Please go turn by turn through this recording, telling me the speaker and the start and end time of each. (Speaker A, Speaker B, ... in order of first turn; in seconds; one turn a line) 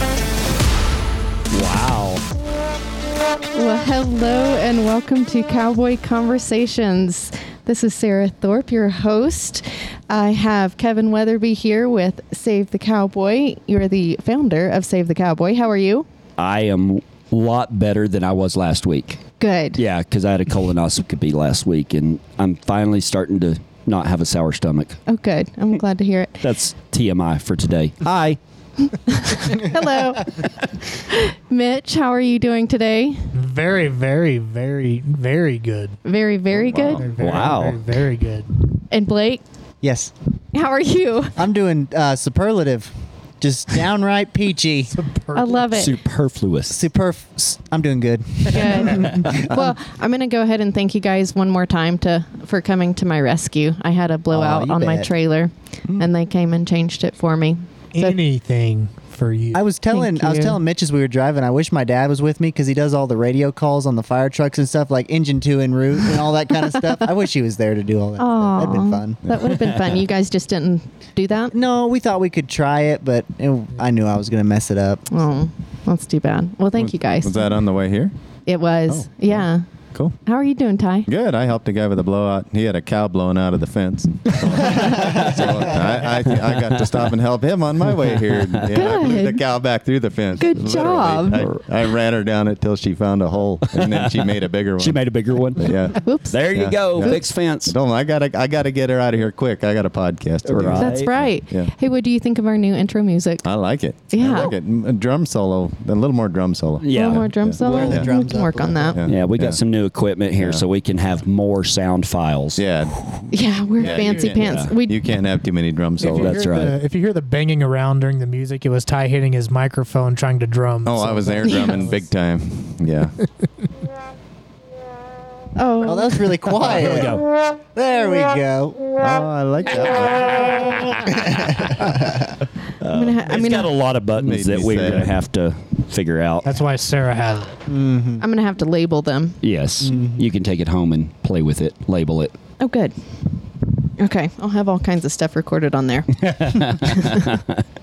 Speaker A: 1.5-2.2
Speaker B: 3.5-16.1
Speaker A: 16.4-19.2
Speaker B: 19.4-19.8
Speaker A: 19.8-25.0
Speaker B: 25.1-26.4
Speaker A: 26.4-28.4
Speaker B: 28.9-30.5
Speaker B: 31.0-33.3
Speaker C: 33.3-36.0
Speaker B: 36.0-37.1
Speaker D: 36.6-37.0
Speaker C: 36.9-38.5
Speaker A: 37.2-37.8
Speaker B: 38.7-39.4
Speaker E: 39.8-40.1
Speaker B: 40.5-41.4
Speaker E: 41.4-44.9
Speaker C: 44.9-45.7
Speaker B: 45.3-46.0
Speaker A: 45.7-46.8
Speaker E: 46.7-49.7
Speaker B: 48.5-58.2
Speaker E: 54.3-55.1
Speaker C: 57.9-60.6
Speaker E: 59.5-69.2
Speaker B: 68.2-71.5
Speaker A: 69.5-69.9
Speaker E: 71.5-75.1
Speaker B: 75.1-77.4
Speaker D: 76.8-78.1
Speaker B: 78.5-79.7
Speaker D: 78.9-80.2
Speaker B: 80.2-81.1
Speaker D: 81.1-95.0
Speaker A: 84.4-85.7
Speaker E: 84.7-85.6
Speaker A: 86.3-87.0
Speaker A: 88.1-88.7
Speaker B: 88.7-89.4
Speaker B: 90.4-91.5
Speaker A: 91.3-91.6
Speaker A: 93.7-97.7
Speaker D: 95.6-101.7
Speaker B: 96.0-97.2
Speaker A: 100.5-101.1
Speaker B: 100.7-103.5
Speaker D: 103.4-108.1
Speaker B: 104.1-104.5
Speaker A: 104.2-104.5
Speaker A: 106.8-107.3
Speaker B: 106.9-109.0
Speaker E: 107.6-109.0
Speaker D: 108.9-109.6
Speaker A: 109.1-112.6
Speaker D: 110.4-110.7
Speaker D: 112.6-116.5
Speaker B: 113.3-115.0
Speaker A: 114.3-114.7
Speaker C: 116.0-122.1
Speaker A: 116.1-116.8
Speaker D: 120.8-123.2
Speaker B: 121.5-121.8
Speaker B: 125.6-126.4
Speaker E: 125.8-129.0
Speaker A: 126.6-127.2
Speaker D: 129.0-130.7
Speaker E: 131.1-132.3
Speaker A: 132.8-136.5
Speaker B: 132.9-133.7
Speaker D: 134.2-135.2
Speaker C: 136.4-137.6
Speaker E: 137.7-138.2
Speaker B: 138.2-139.4
Speaker A: 139.4-142.3
Speaker E: 139.8-140.3
Speaker B: 142.6-142.9
Speaker B: 144.0-147.3
Speaker A: 146.2-147.6